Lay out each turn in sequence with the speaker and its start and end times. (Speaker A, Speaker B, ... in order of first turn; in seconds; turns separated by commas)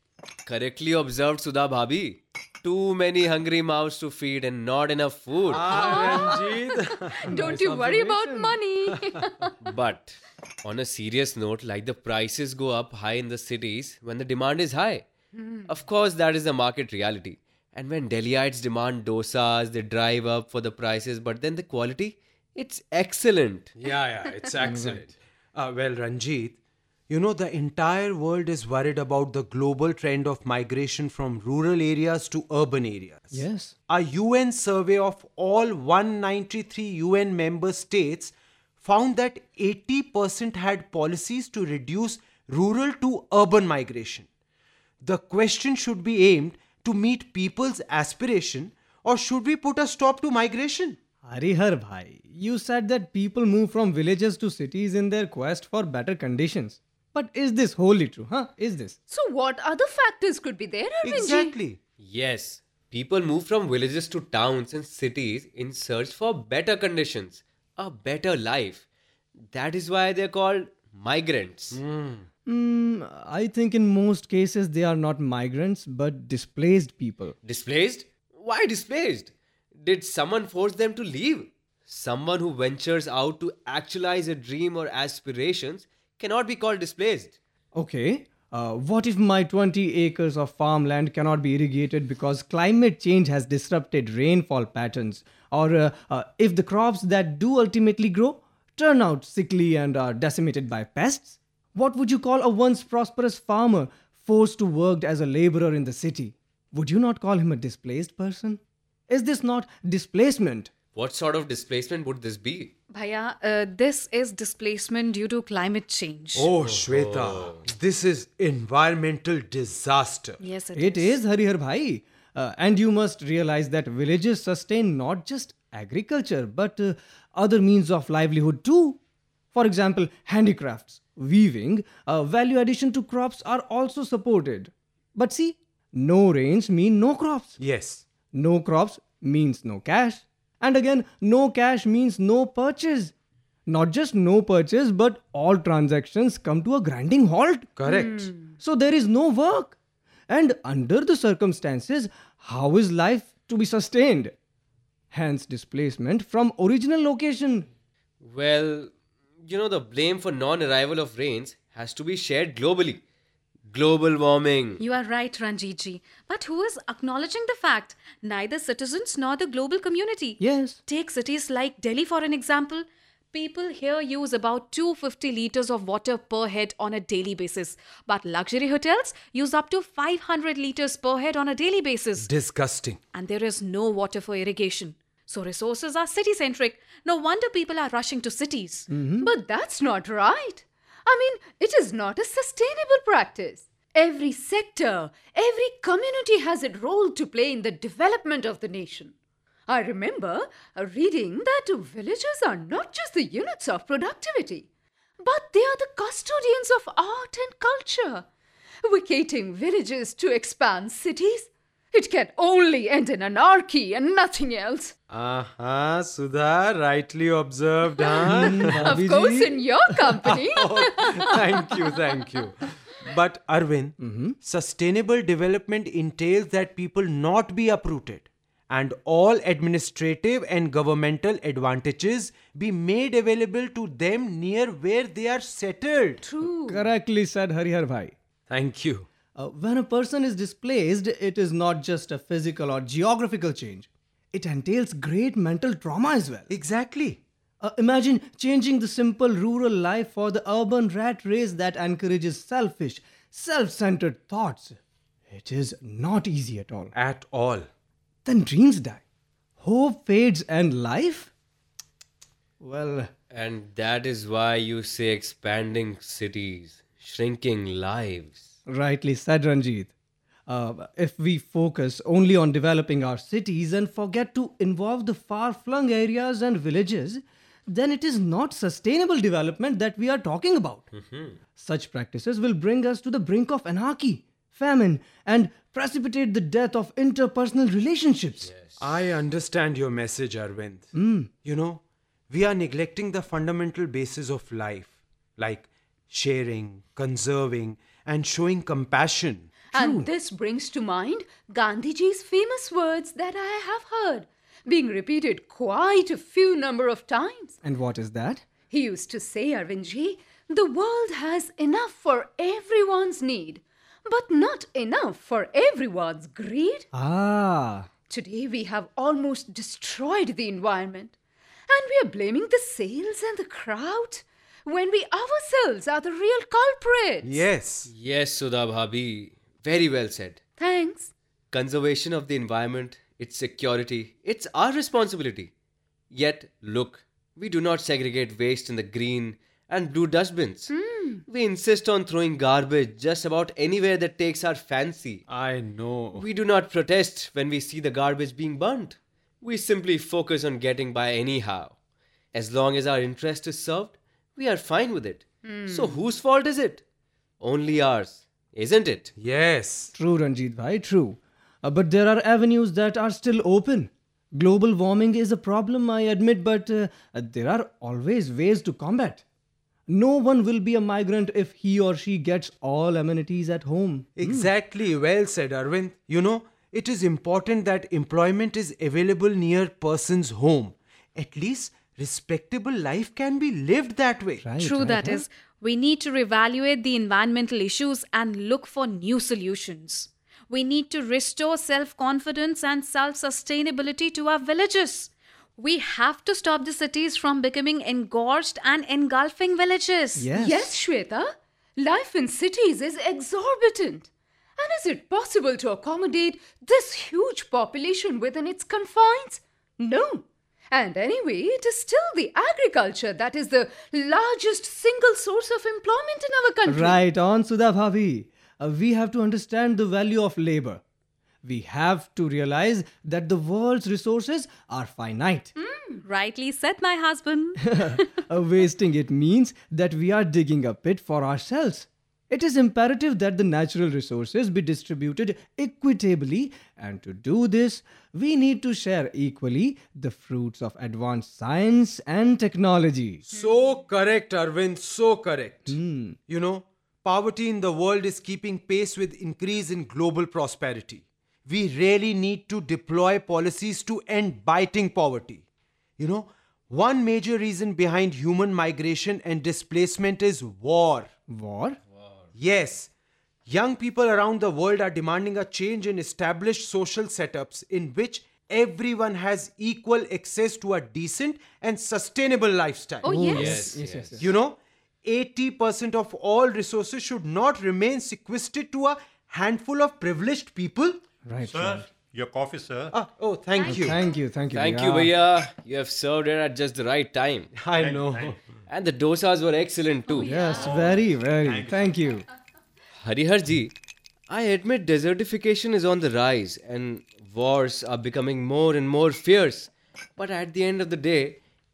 Speaker A: 0.5-6.0, Speaker B: 5.4-7.5, Speaker C: 5.6-9.5, Speaker D: 7.2-8.6, Speaker A: 9.6-15.1, Speaker C: 15.3-15.7, Speaker A: 15.7-23.7, Speaker B: 23.8-26.6, Speaker D: 24.6-25.1, Speaker B: 27.1-44.3, Speaker D: 33.3-33.8, Speaker B: 45.0-51.0, Speaker D: 51.2-59.0, Speaker C: 59.1-61.5, Speaker B: 61.0-61.8, Speaker A: 62.0-68.8, Speaker A: 69.5-71.8, Speaker B: 71.7-72.2, Speaker D: 72.5-77.3, Speaker A: 77.4-87.4, Speaker D: 87.7-110.7, Speaker A: 110.9-112.7, Speaker E: 112.9-116.5, Speaker B: 116.3-120.4, Speaker A: 116.6-117.7, Speaker E: 120.4-121.2, Speaker D: 120.7-129.0, Speaker D: 129.5-137.6, Speaker B: 137.6-138.0, Speaker D: 138.3-143.1, Speaker D: 143.7-147.7, Speaker B: 147.8-148.3, Speaker C: 147.8-148.5, Speaker D: 148.6-149.8, Speaker D: 150.3-154.3, Speaker D: 155.1-157.7, Speaker A: 158.2-158.9, Speaker A: 159.4-163.0, Speaker A: 163.7-164.8, Speaker E: 164.8-182.3, Speaker D: 170.4-170.8, Speaker B: 182.2-183.0, Speaker E: 183.1-188.9, Speaker D: 188.9-189.3, Speaker C: 189.2-199.1, Speaker C: 199.7-204.7, Speaker C: 205.2-208.3, Speaker C: 208.8-214.9, Speaker B: 215.1-218.9, Speaker C: 218.0-221.6, Speaker D: 218.2-219.6, Speaker B: 220.3-236.2, Speaker D: 224.0-224.4, Speaker C: 236.2-236.8, Speaker D: 236.7-238.1, Speaker B: 238.5-239.1, Speaker D: 239.3-246.5, Speaker B: 246.5-247.2, Speaker D: 247.6-254.8, Speaker D: 255.3-256.9, Speaker B: 256.9-257.7, Speaker D: 258.2-259.0, Speaker D: 259.6-261.3, Speaker D: 262.6-263.1, Speaker A: 263.3-268.5, Speaker D: 268.7-269.9, Speaker D: 270.5-280.9, Speaker A: 280.9-281.4, Speaker D: 281.6-288.5, Speaker A: 288.4-289.2, Speaker B: 288.8-300.1, Speaker D: 290.9-291.3, Speaker C: 299.7-307.6, Speaker D: 307.6-308.4, Speaker C: 308.7-316.9, Speaker D: 316.9-317.9, Speaker C: 318.1-321.1, Speaker C: 321.7-327.4, Speaker B: 327.2-327.9, Speaker A: 327.9-330.4, Speaker C: 330.6-331.1, Speaker A: 331.5-335.5, Speaker A: 336.1-340.7, Speaker C: 340.7-341.2, Speaker A: 341.2-345.2, Speaker B: 345.3-346.3, Speaker A: 346.1-351.7, Speaker A: 352.3-356.8, Speaker C: 355.4-356.0, Speaker A: 357.4-359.1, Speaker B: 359.2-359.9, Speaker D: 359.9-369.2, Speaker D: 369.9-374.5, Speaker B: 374.2-384.5, Speaker D: 384.4-385.2, Speaker E: 384.6-400.3, Speaker D: 400.2-400.7, Speaker C: 400.3-417.0, Speaker D: 416.6-420.8, Speaker D: 421.4-425.5, Speaker C: 425.6-426.0, Speaker E: 426.0-428.1, Speaker D: 427.6-443.2, Speaker B: 443.2-445.8, Speaker D: 445.7-446.2, Speaker B: 446.3-455.4, Speaker B: 456.0-461.1, Speaker D: 461.3-461.8, Speaker B: 462.3-462.9, Speaker B: 463.4-473.5, Speaker E: 473.0-473.6, Speaker D: 473.0-474.3, Speaker A: 473.3-474.2, Speaker B: 474.2-481.0, Speaker D: 481.2-481.9, Speaker F: 481.4-482.9, Speaker B: 482.9-484.0, Speaker E: 483.6-484.0, Speaker D: 483.6-485.1, Speaker A: 484.5-487.5, Speaker B: 487.6-488.4, Speaker F: 487.8-488.5, Speaker A: 488.7-490.3, Speaker E: 490.1-490.9, Speaker D: 490.2-492.2, Speaker F: 490.5-491.9, Speaker A: 493.0-493.7, Speaker A: 494.3-501.4